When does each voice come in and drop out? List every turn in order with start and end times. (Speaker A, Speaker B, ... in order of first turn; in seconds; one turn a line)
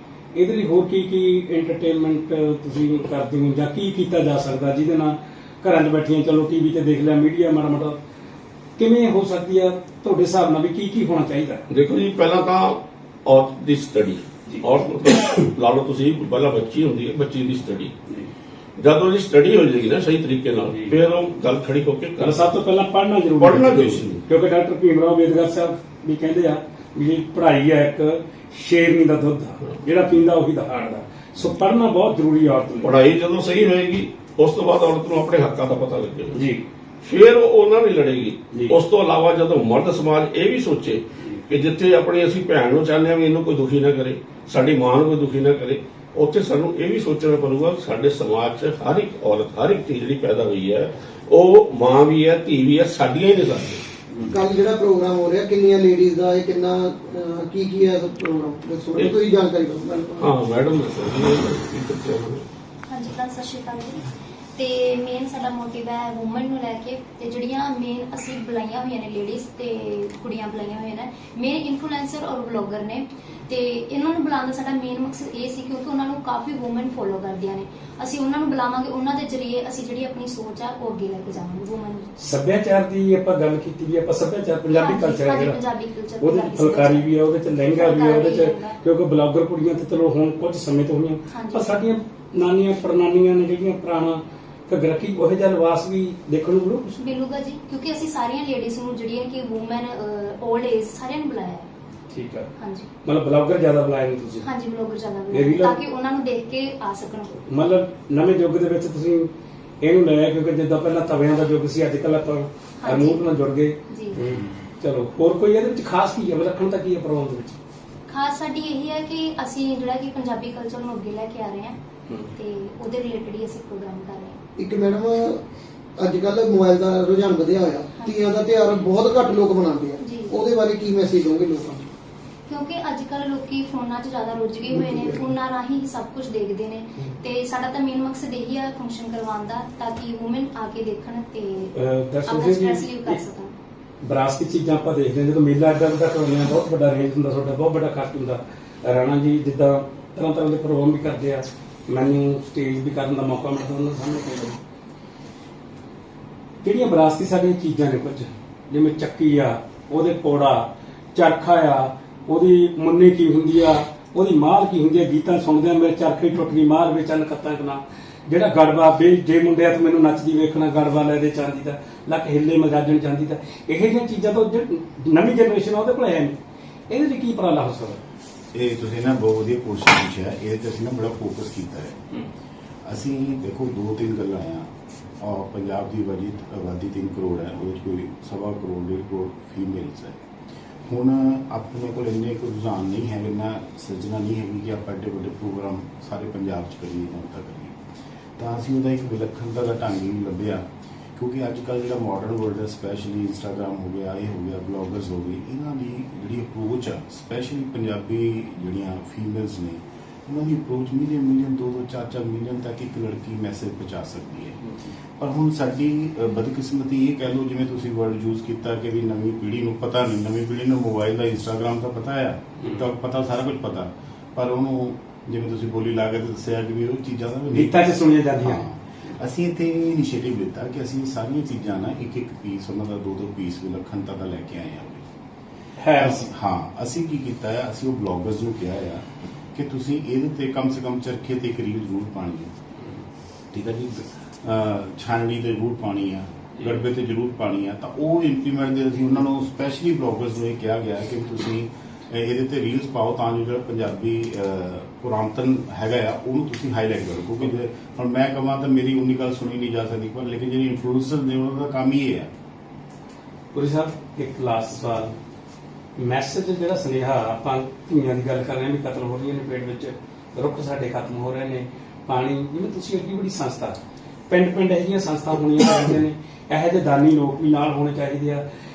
Speaker A: 0.3-8.0
Speaker A: 8.8-11.7
Speaker B: 11.7-17.9
Speaker B: 18.8-22.4
Speaker A: 20.7-21.0
Speaker A: 22.2-33.0
Speaker B: 23.4-24.2
Speaker B: 32.8-36.4
Speaker A: 36.3-36.6
Speaker B: 37.0-53.9
Speaker A: 38.5-38.8
Speaker C: 54.2-60.3
Speaker B: 60.2-62.4
Speaker D: 62.9-82.2
Speaker A: 82.2-85.6
Speaker D: 84.7-88.8
Speaker A: 86.2-97.0
Speaker D: 91.3-91.8
Speaker D: 96.9-101.7
Speaker A: 102.1-102.5
Speaker D: 102.6-102.9
Speaker A: 103.0-104.5
Speaker D: 104.4-107.4
Speaker A: 105.3-105.8
Speaker A: 107.5-109.3
Speaker A: 109.8-117.6
Speaker D: 112.8-113.2
Speaker D: 113.9-114.2
Speaker D: 118.1-121.8
Speaker D: 122.3-124.4
Speaker C: 124.6-125.4
Speaker C: 126.0-131.9
Speaker D: 128.0-128.3
Speaker D: 130.0-130.4
Speaker D: 132.5-141.7
Speaker C: 134.7-135.3
Speaker A: 141.8-143.2
Speaker D: 142.3-143.5
Speaker A: 144.0-154.6
Speaker A: 156.6-176.4
Speaker A: 176.9-178.0
Speaker E: 178.5-182.0
Speaker E: 182.8-184.7
Speaker E: 185.2-190.2
Speaker E: 190.9-197.8
Speaker E: 198.4-200.6
Speaker E: 201.2-214.6
Speaker E: 215.2-235.1
Speaker A: 227.5-228.6
Speaker A: 235.8-236.3
Speaker E: 236.0-242.5
Speaker E: 243.5-262.3
Speaker A: 263.5-265.1
Speaker A: 266.0-278.4